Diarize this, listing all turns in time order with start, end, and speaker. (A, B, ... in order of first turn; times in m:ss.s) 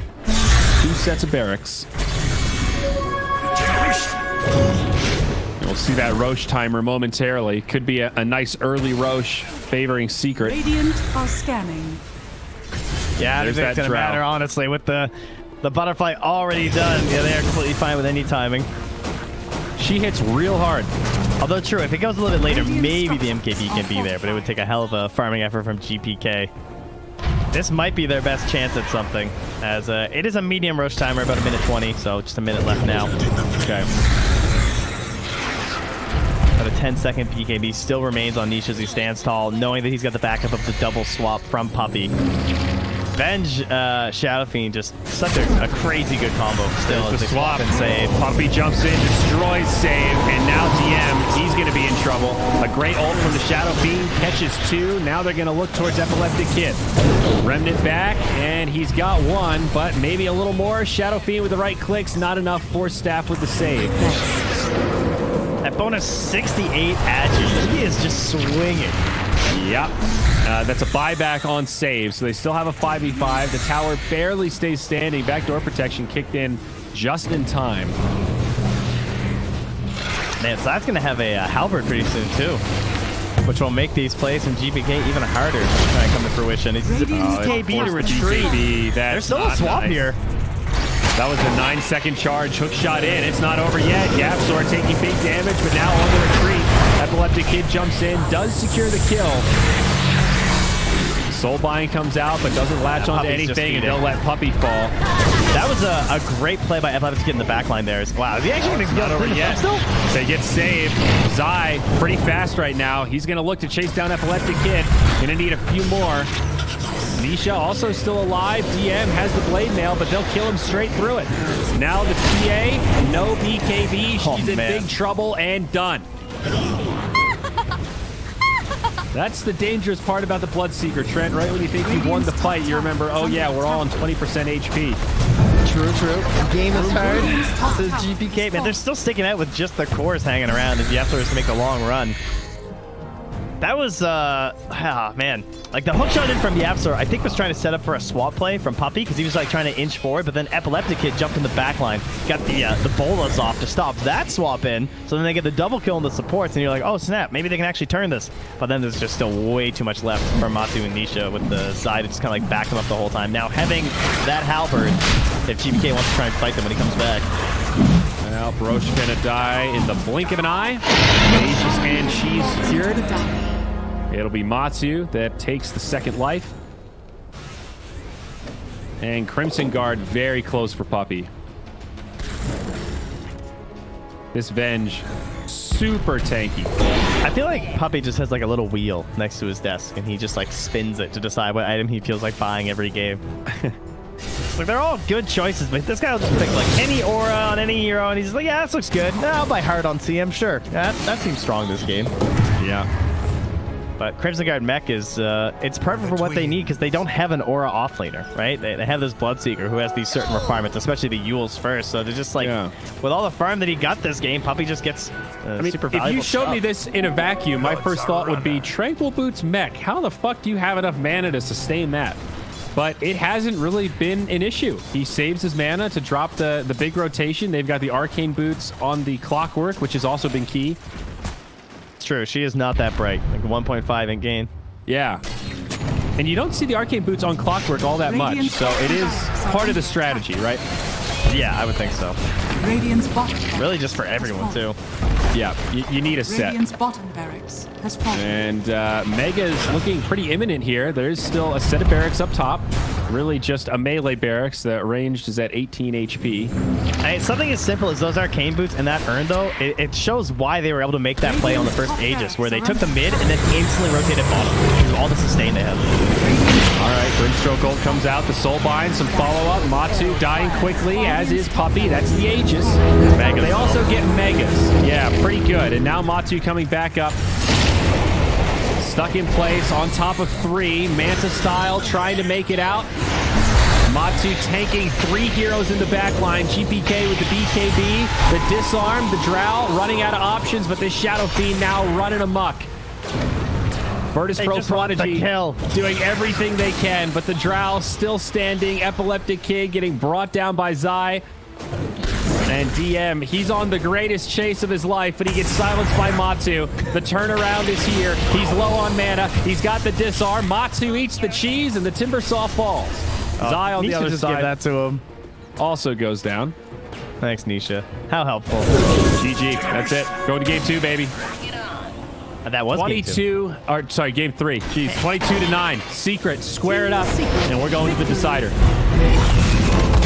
0:00.8-0:01.9 A
0:05.6-0:10.6 A
0:10.4-0:12.0 B
0:13.2-0:18.7 C
0:13.4-0:14.2 A
0:19.8-0:20.9 A
0:21.4-0:26.5 C
0:22.4-0:24.7 B
0:27.5-0:33.9 C
0:36.6-0:42.1 C
0:43.1-0:48.2 C
0:46.8-0:56.8 A
0:57.4-1:04.2 A
1:04.0-1:04.3 B
1:05.6-1:09.0 C
1:09.5-1:18.0 A
1:20.4-1:22.6 C
1:23.4-1:30.2 C
1:26.8-1:28.7 B
1:27.1-1:30.1 A
1:31.1-1:39.5 A
1:41.3-1:45.0 A
1:42.9-1:44.0 C
1:45.5-1:49.8 C
1:48.6-1:56.3 A
1:57.2-2:06.1 A
2:04.2-2:04.9 C
2:09.1-2:15.0 A
2:11.8-2:13.9 B
2:15.6-2:22.2 C
2:16.7-2:18.8 B
2:23.6-2:47.3 C
2:48.2-2:53.2 A
2:51.2-2:53.5 B
2:54.1-2:56.5 A
2:59.0-3:01.3 A
3:04.3-3:06.7 A
3:07.2-3:13.2 C
3:13.5-3:13.8 A
3:14.5-3:22.1 C
3:22.6-3:22.9 A
3:24.0-3:36.6 C
3:32.4-3:32.7 A
3:35.6-3:42.2 A
3:42.7-3:50.8 A
3:52.0-3:54.5 C
3:54.9-3:55.2 A
3:56.2-4:00.6 A
3:58.0-4:00.3 B
4:01.3-4:02.2 C
4:02.6-4:04.7 B
4:03.6-4:04.8 C
4:05.3-4:06.6 A
4:06.3-4:08.3 B
4:08.1-4:16.5 A
4:17.0-4:25.9 C
4:21.2-4:23.4 B
4:26.2-4:34.1 B
4:26.7-4:37.2 A
4:33.1-4:33.9 C
4:38.8-4:42.9 A
4:43.8-4:52.7 A
4:54.1-5:01.2 A
4:54.4-4:55.6 C
5:02.4-5:14.5 A
5:13.4-5:15.0 C
5:15.6-5:16.6 A
5:17.2-5:18.7 C
5:19.1-5:21.2 A
5:22.4-5:23.2 C
5:22.7-5:28.6 A
5:26.6-5:28.5 B